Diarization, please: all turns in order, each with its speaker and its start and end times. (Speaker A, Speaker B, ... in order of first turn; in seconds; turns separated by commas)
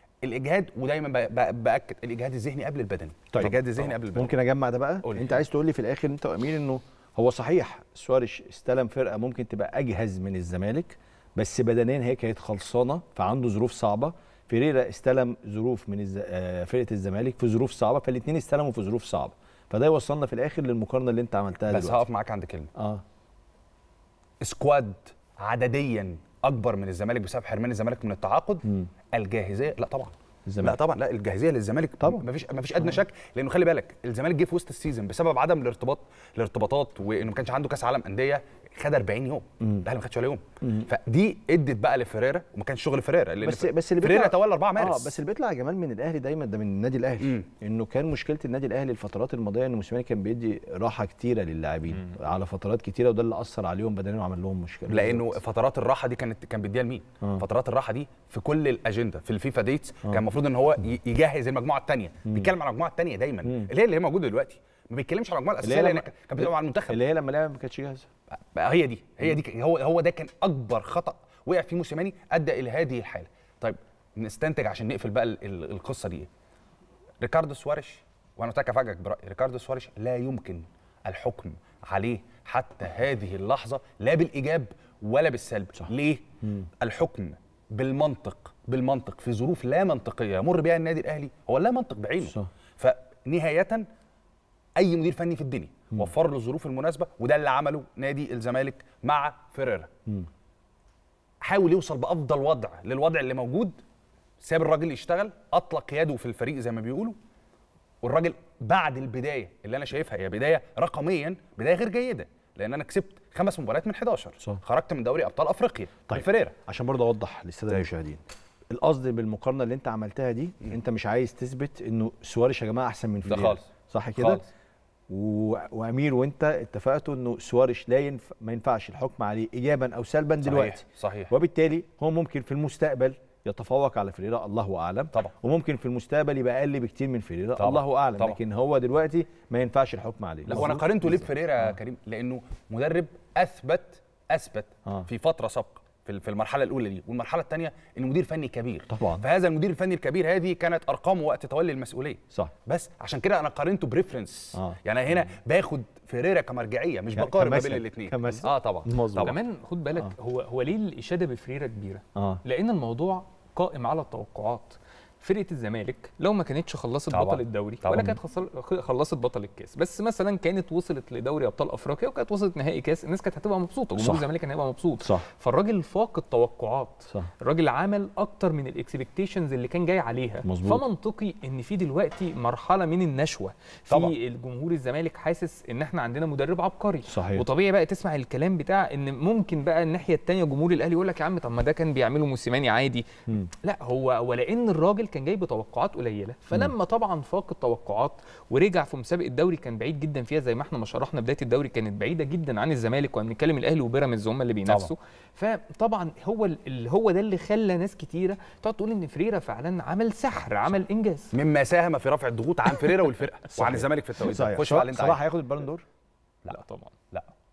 Speaker A: 0.2-4.3, Speaker B: 3.3-22.0, Speaker A: 5.0-5.4, Speaker A: 21.7-22.7, Speaker B: 22.8-23.0, Speaker A: 24.4-45.1, Speaker B: 28.6-28.9, Speaker B: 30.5-30.8, Speaker B: 32.0-32.3, Speaker B: 39.6-39.9, Speaker B: 43.4-55.4, Speaker A: 47.2-47.5, Speaker A: 54.9-67.0, Speaker B: 63.5-63.7, Speaker B: 65.6-68.1, Speaker A: 68.3-76.3, Speaker A: 77.2-86.2, Speaker B: 86.4-86.7, Speaker A: 86.8-93.9, Speaker B: 92.2-92.5, Speaker A: 94.8-99.9, Speaker A: 101.4-103.8, Speaker A: 104.4-107.2, Speaker A: 108.0-116.6, Speaker B: 116.1-124.4, Speaker A: 123.2-123.6, Speaker A: 124.2-124.5, Speaker B: 125.1-141.7, Speaker A: 130.4-131.3, Speaker A: 137.6-138.4, Speaker A: 140.5-159.4, Speaker B: 148.9-149.2, Speaker B: 157.1-159.3, Speaker C: 159.2-193.1, Speaker B: 162.2-162.4, Speaker A: 167.1-168.2, Speaker B: 174.0-174.3, Speaker B: 175.0-175.3, Speaker B: 180.4-180.8, Speaker A: 183.9-184.2, Speaker B: 187.1-187.5, Speaker C: 193.6-211.3, Speaker A: 211.3-215.2, Speaker B: 213.5-215.8, Speaker C: 216.5-216.9